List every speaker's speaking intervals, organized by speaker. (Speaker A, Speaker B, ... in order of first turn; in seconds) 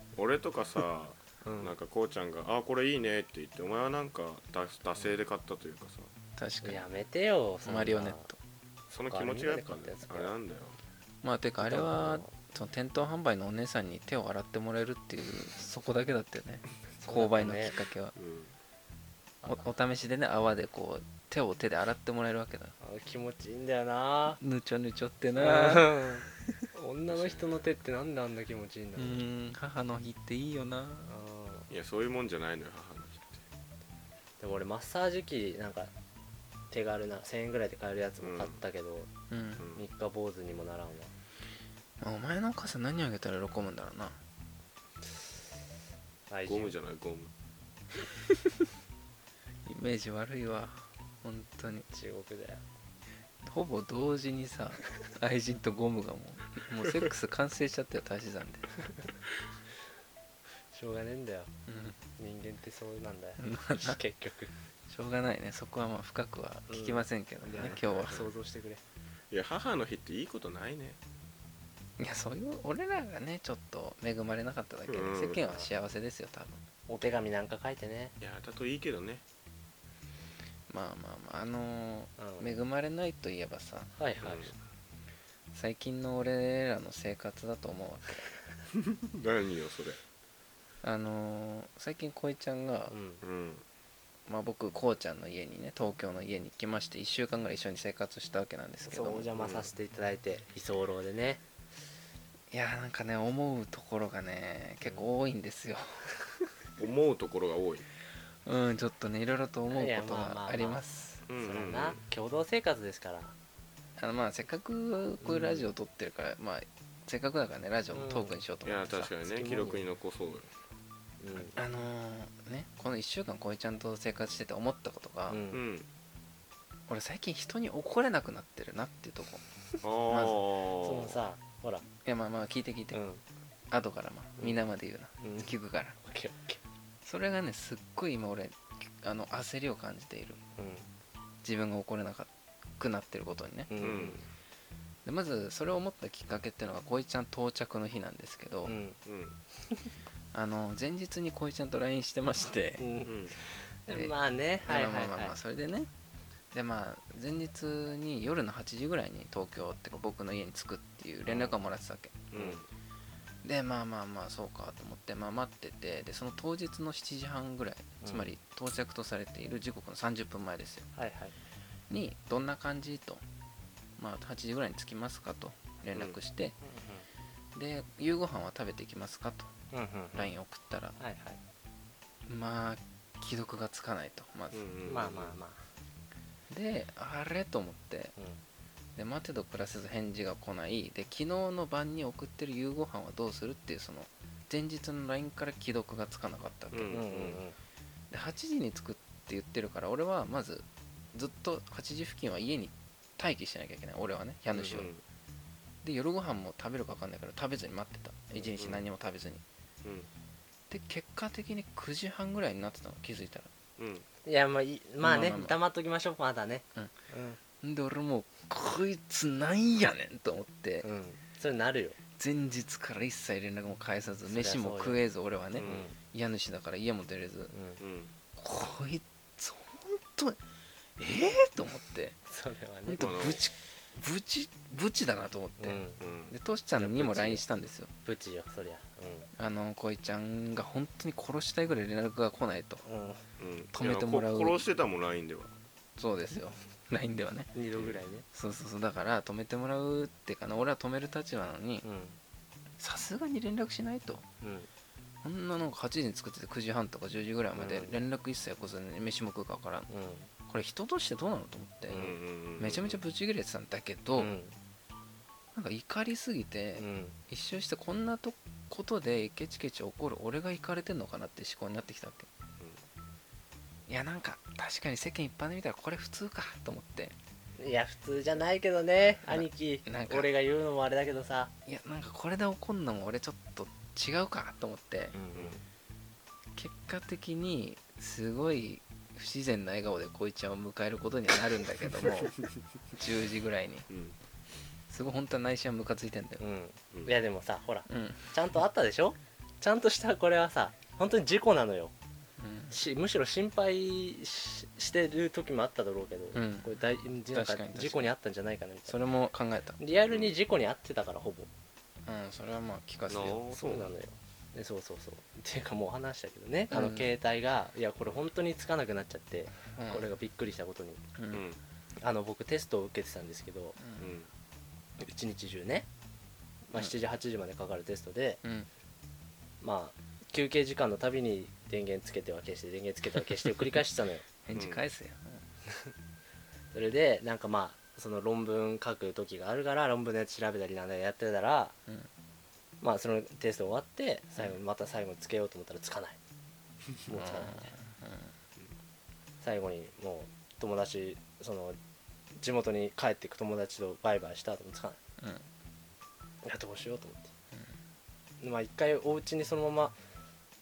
Speaker A: 0.2-6.1, 8.9-10.8, 18.2-18.5, 27.1-27.7, 31.7-33.4, 38.2-38.6, 39.6-39.9, 46.5-47.3, 67.7-68.3, 69.3-71.0, 74.9-75.4, 78.2-79.2, 84.2-84.5, 88.9-90.0, 93.2-93.6, 99.4-99.7, 106.8-107.9, 111.3-112.0, 118.7-120.5, 125.5-125.9, 129.8-131.2, 143.8-144.2, 149.1-149.4, 153.1-153.3, 162.3-162.7, 184.5-185.3, 196.7-197.4, 204.7-205.0, 208.6-208.8, 209.8-210.1, 213.8-214.1, 225.6-225.9, 227.8-228.1, 233.0-233.4, 236.0-236.3, 243.4-245.5, 261.9-263.0, 293.9-294.2, 310.1-310.4, 313.1-313.9, 321.3-321.6, 324.0-324.3, 334.5-334.9
Speaker B: 1.4-1.8, 6.6-8.3, 9.1-10.4, 11.6-12.3, 17.0-17.7, 19.4-19.7, 22.8-24.4, 25.4-29.2, 31.1-31.7, 34.4-35.9, 36.7-39.1, 39.8-41.1, 46.3-46.8, 51.9-52.6, 60.7-61.5, 62.2-64.5, 66.7-68.8, 76.9-78.2, 82.2-82.5, 84.0-84.5, 92.9-93.2, 98.8-101.4, 104.8-105.1, 109.7-113.3, 115.2-115.7, 117.9-118.4, 119.3-119.8, 121.2-121.6, 125.3-125.6, 130.8-131.8, 132.9-133.2, 135.2-135.5, 136.0-136.6, 140.6-140.9, 143.7-144.3, 148.7-149.0, 152.8-155.3, 161.2-161.6, 162.3-162.6, 168.0-168.3, 170.9-171.4, 176.6-177.1, 179.7-180.3, 181.0-181.4, 184.8-185.7, 196.9-197.6, 204.5-204.8, 214.2-217.4, 220.8-222.0, 224.3-225.0, 225.6-226.0, 227.5-227.8, 232.3-233.1, 235.6-236.0, 236.8-237.4, 238.1-239.3, 242.8-243.2, 247.6-248.3, 251.8-252.2, 254.4-254.7, 257.6-258.0, 259.9-260.3, 261.9-262.2, 264.2-264.6, 266.8-267.2, 277.6-281.5, 285.1-285.6, 296.4-301.9, 302.7-309.0, 309.8-311.5, 313.5-321.0, 322.0-323.8, 325.0-325.9, 326.7-328.4, 329.6-334.2, 336.7-341.8, 342.8-346.2, 347.1-347.7, 349.4-351.8, 352.4-355.0, 356.4-357.3, 358.4-360.0
Speaker C: 6.4-6.8, 7.7-8.4, 11.2-18.1, 19.4-22.8, 24.4-26.6, 29.0-31.1, 39.3-39.6, 42.0-44.2, 49.6-51.9, 53.4-58.9, 61.7-62.0, 63.4-64.0, 64.9-68.2, 72.0-77.1, 80.7-83.9, 85.5-88.3, 90.8-92.9, 94.3-99.3, 102.5-106.0, 108.5-110.8, 114.0-119.1, 121.5-125.4, 126.9-129.4, 130.1-130.4, 132.1-133.0, 133.7-136.0, 137.0-140.4, 141.4-143.7, 145.1-148.8, 150.3-152.8, 153.9-155.9, 156.5-162.3, 163.4-170.9, 171.9-173.2, 174.0-176.6, 177.6-179.5, 180.1-181.0, 182.3-184.6, 186.5-188.2, 189.0-197.0, 198.1-204.9, 205.8-209.4, 210.7-213.5, 215.0-215.5, 217.6-220.9, 222.2-227.5, 228.4-230.4, 231.0-232.2, 232.9-235.8, 236.3-237.9, 239.4-242.8, 243.7-244.6, 246.0-247.5, 248.3-251.8, 252.8-254.2, 255.2-259.9, 260.5-264.3, 265.6-272.3, 273.9-277.1, 279.3-280.3, 281.7-285.1, 286.6-292.4, 292.9-293.9, 294.9-296.4, 297.9-298.3, 302.4-302.8, 306.3-306.7, 307.3-308.1, 308.9-309.8, 312.1-313.5, 316.7-317.1, 319.8-320.1, 321.2-321.4, 323.8-324.1, 328.4-328.7, 334.4-335.4, 347.1-348.3, 355.2-355.5